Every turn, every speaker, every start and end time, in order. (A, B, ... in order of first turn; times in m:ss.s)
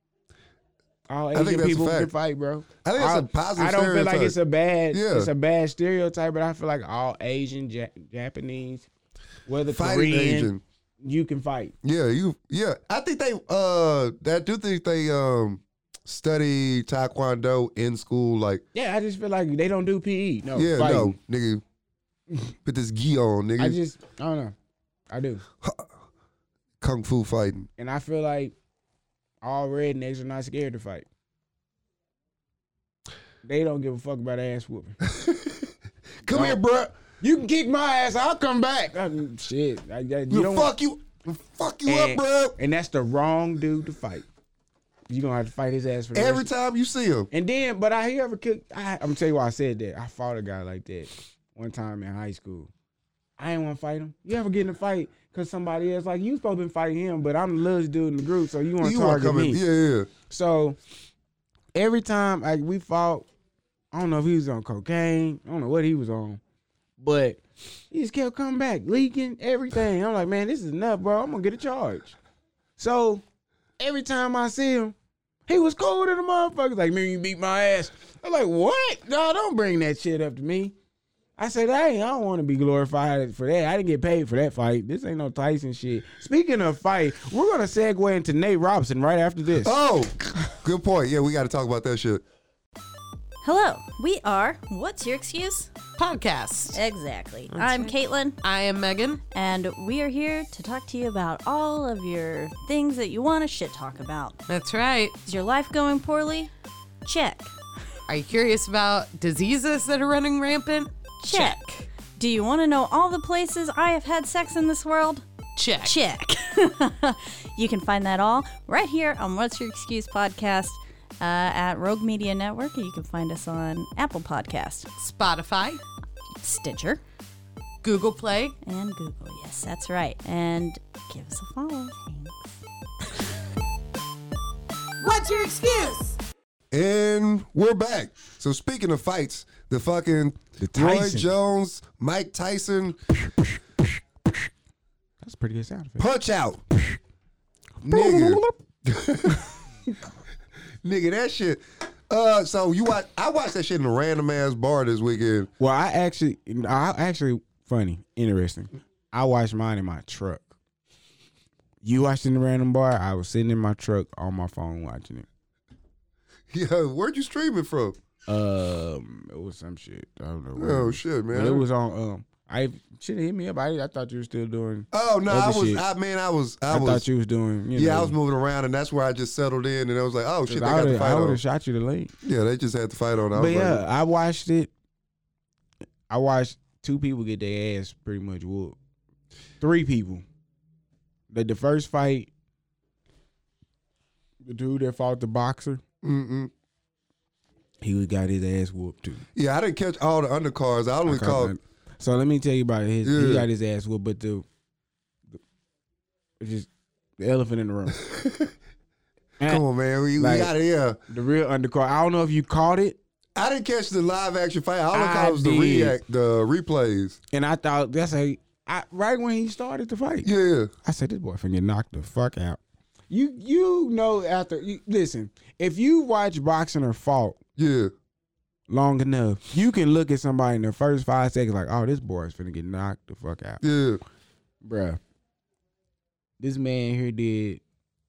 0:01.1-0:08.9 A
0:01.3-0:02.1 B
0:02.8-0:04.4 B
0:04.9-0:05.3 B
0:09.5-0:11.7 A
0:09.7-0:10.6 B
0:11.8-0:18.6 B
0:18.7-0:21.2 A
0:20.5-0:21.6 B
0:22.6-0:23.8 B
0:23.6-0:24.6 A
0:25.1-0:25.4 A
0:25.6-0:25.9 B
0:26.8-0:27.7 B
0:27.8-0:28.6 A
0:29.4-0:31.1 A
0:33.4-0:35.0 A
0:35.1-0:35.7 B
0:36.2-0:36.9 B
0:36.3-0:36.6 A
0:37.2-0:40.7 A
0:40.3-0:42.6 B
0:41.9-0:44.3 A
0:45.1-0:46.5 A
0:46.1-0:47.3 B
0:47.3-0:52.7 A
0:53.4-0:59.6 A
0:58.8-1:00.1 B
1:00.3-1:00.8 A
1:01.8-1:03.3 A
1:03.9-1:06.4 A
1:07.0-1:07.4 A
1:07.9-1:12.2 A
1:12.8-1:13.2 A
1:13.8-1:15.0 A
1:15.5-1:20.8 A
1:21.4-1:29.8 A
1:29.6-1:32.2 B
1:33.4-1:35.7 C
1:36.0-1:36.8 D
1:36.7-1:38.4 C
1:37.5-1:39.2 D
1:39.3-1:44.4 C
1:44.5-1:45.2 D
1:45.2-1:46.5 C
1:47.0-1:47.5 C
1:48.1-1:51.6 D
1:51.2-1:55.2 C
1:55.6-1:55.9 D
1:55.8-2:04.9 C
2:05.0-2:05.8 D
2:06.4-2:07.0 C
2:07.8-2:08.6 D
2:08.6-2:12.6 C
2:15.0-2:16.2 D
2:16.7-2:23.0 B
2:20.6-2:21.3 A
2:25.2-2:26.1 A
2:26.0-2:26.6 B
2:27.8-2:28.6 A
2:27.8-2:29.4 B
2:30.8-2:35.5 B
2:35.6-2:40.5 A
2:41.8-2:45.3 A
2:46.5-2:48.0 B
2:48.3-2:55.8 A
2:50.6-2:51.6 B
2:54.9-2:57.0 B
2:56.7-2:58.1 A
2:57.8-3:01.4 B
3:00.5-3:02.1 A
3:02.2-3:03.8 B
3:03.4-3:04.7 A
3:06.1-3:08.8 A
3:09.6-3:10.2 A
3:11.3-3:12.3 A
3:14.4-3:15.8 A
3:16.0-3:16.5 B
3:17.8-3:19.2 A
3:19.4-3:21.5 B
3:21.1-3:24.4 A
3:23.0-3:23.5 B
3:26.4-3:26.7 A
3:27.2-3:28.0 A
3:28.0-3:28.5 B
3:29.4-3:31.0 B
3:30.2-3:30.5 A
3:31.1-3:33.0 A
3:33.4-3:37.2 B
3:34.9-3:36.0 A
3:37.3-3:40.3 A
3:40.2-3:40.7 B
3:40.8-3:47.4 A
3:47.6-3:47.9 B
3:48.7-3:53.6 A
3:53.6-3:54.0 B
3:54.6-3:55.0 A
3:56.4-3:57.6 A